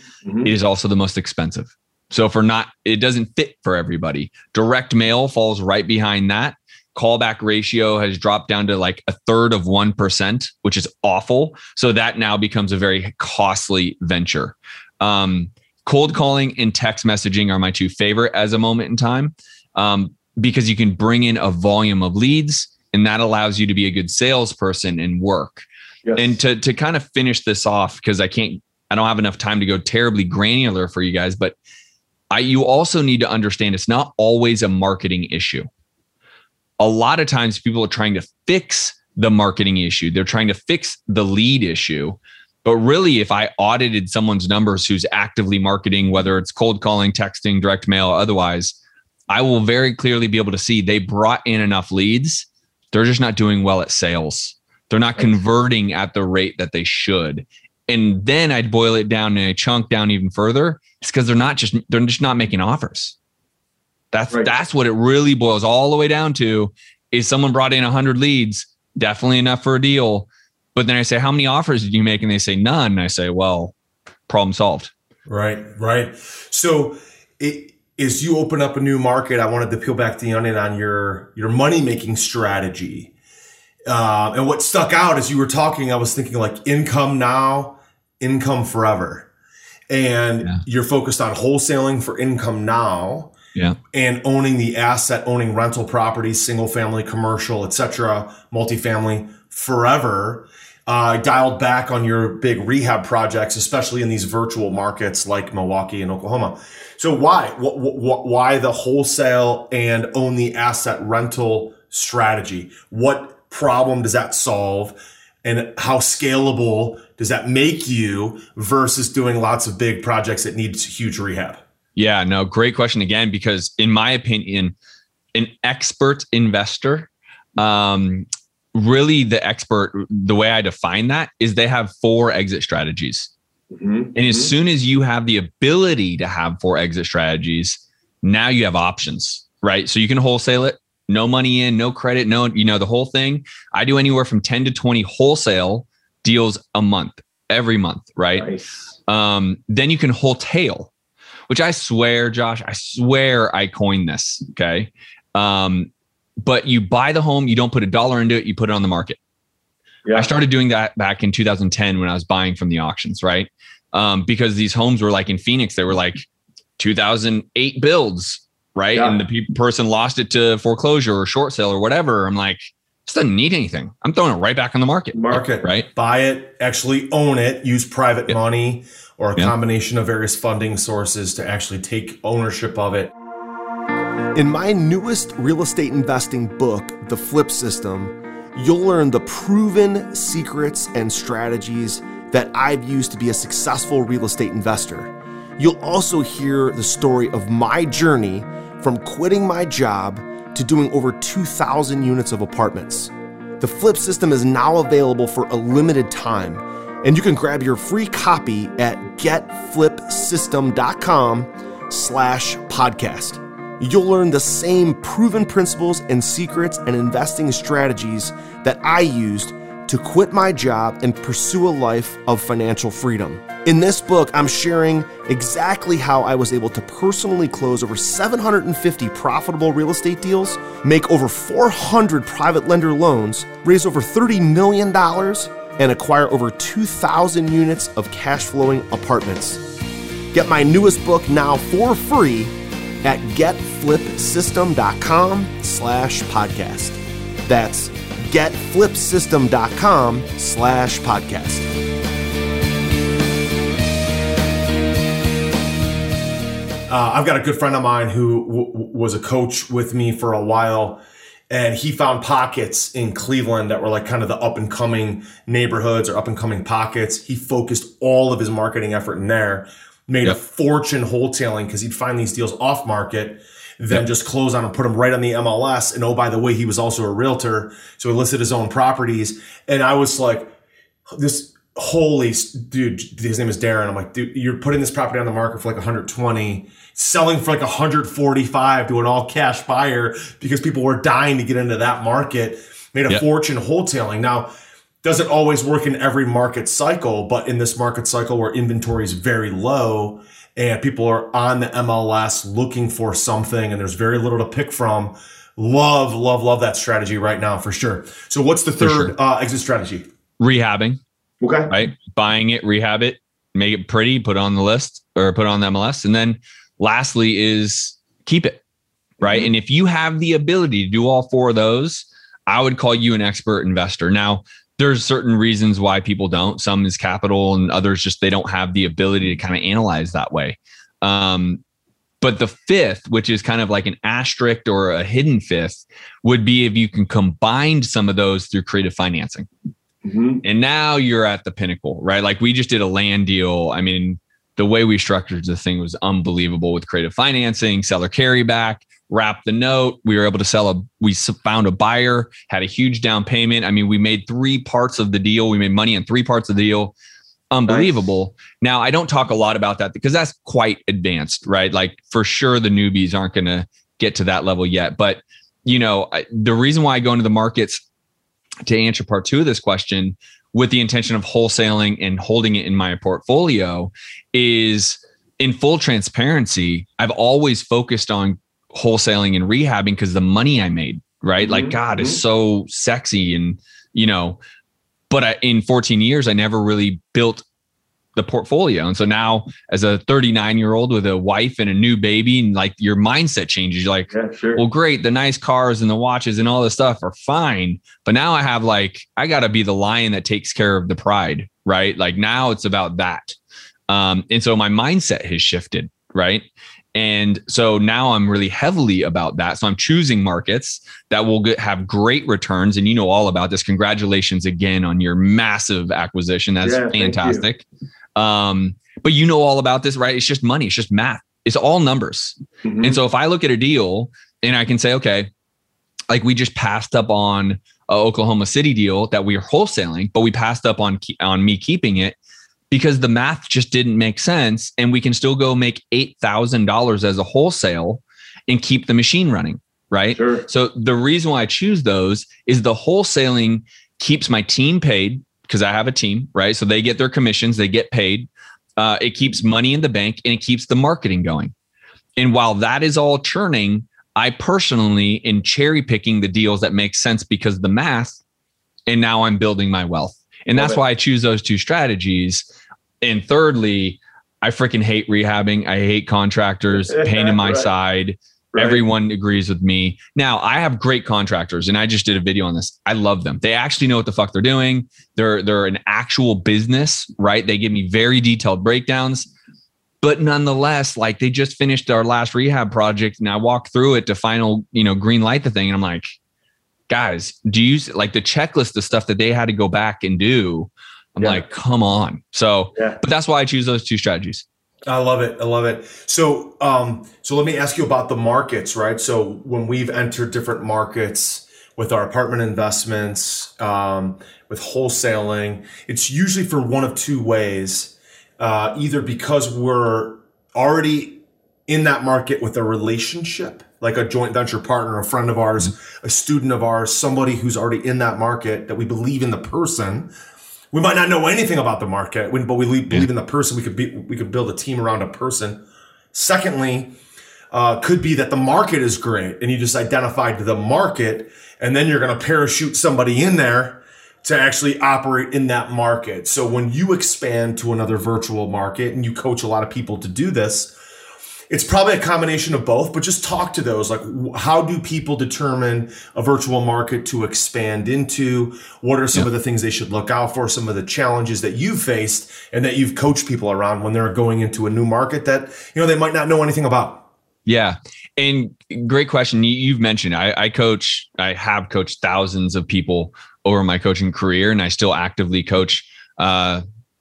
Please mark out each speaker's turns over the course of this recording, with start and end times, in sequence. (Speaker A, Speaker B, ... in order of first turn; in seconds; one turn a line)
Speaker A: 0.2-0.5
Speaker B: 0.4-25.6
Speaker A: 26.0-26.3
Speaker B: 26.1-31.5
Speaker B: 32.3-35.7
Speaker B: 36.8-48.8
Speaker B: 49.3-63.1
Speaker B: 64.1-73.7
Speaker B: 74.3-74.9
Speaker A: 75.3-83.1
Speaker A: 83.9-89.3
Speaker A: 89.9-93.3
Speaker A: 93.9-121.6
Speaker B: 122.0-124.7
Speaker B: 125.3-133.3
Speaker A: 133.7-134.5
Speaker B: 134.1-148.5
Speaker B: 149.1-150.9
Speaker B: 151.5-159.2
Speaker B: 160.1-166.2
Speaker B: 166.8-175.9
Speaker A: 175.1-183.1
Speaker A: 184.3-239.6
Speaker A: 240.3-251.7
Speaker A: 256.9-280.5
Speaker A: 281.1-294.5
Speaker A: 295.0-310.1
Speaker B: 308.8-309.1
Speaker B: 310.4-311.0
Speaker A: 311.4-311.7
Speaker B: 311.7-318.6
Speaker B: 319.2-331.6
Speaker B: 332.2-339.5
Speaker A: 340.1-340.4
Speaker B: 340.4-356.9
Speaker B: 357.5-367.8
Speaker B: 368.6-384.4
Speaker A: 381.4-382.1
Speaker B: 385.1-387.4
Speaker B: 388.1-403.4
Speaker A: 394.2-394.5
Speaker B: 403.9-417.6
Speaker A: 416.6-417.4
Speaker B: 418.1-425.3
Speaker A: 422.6-422.9
Speaker B: 426.1-432.2
Speaker B: 432.7-451.5
Speaker A: 440.1-440.4
Speaker B: 452.2-458.2
Speaker B: 458.9-462.4
Speaker B: 463.0-479.3
Speaker A: 467.0-467.6
Speaker B: 480.0-486.1
Speaker B: 486.9-494.4
Speaker A: 494.9-520.1
Speaker A: 520.7-525.6
Speaker A: 526.1-526.9
Speaker A: 527.5-540.7
Speaker A: 541.5-557.1
Speaker B: 557.5-566.6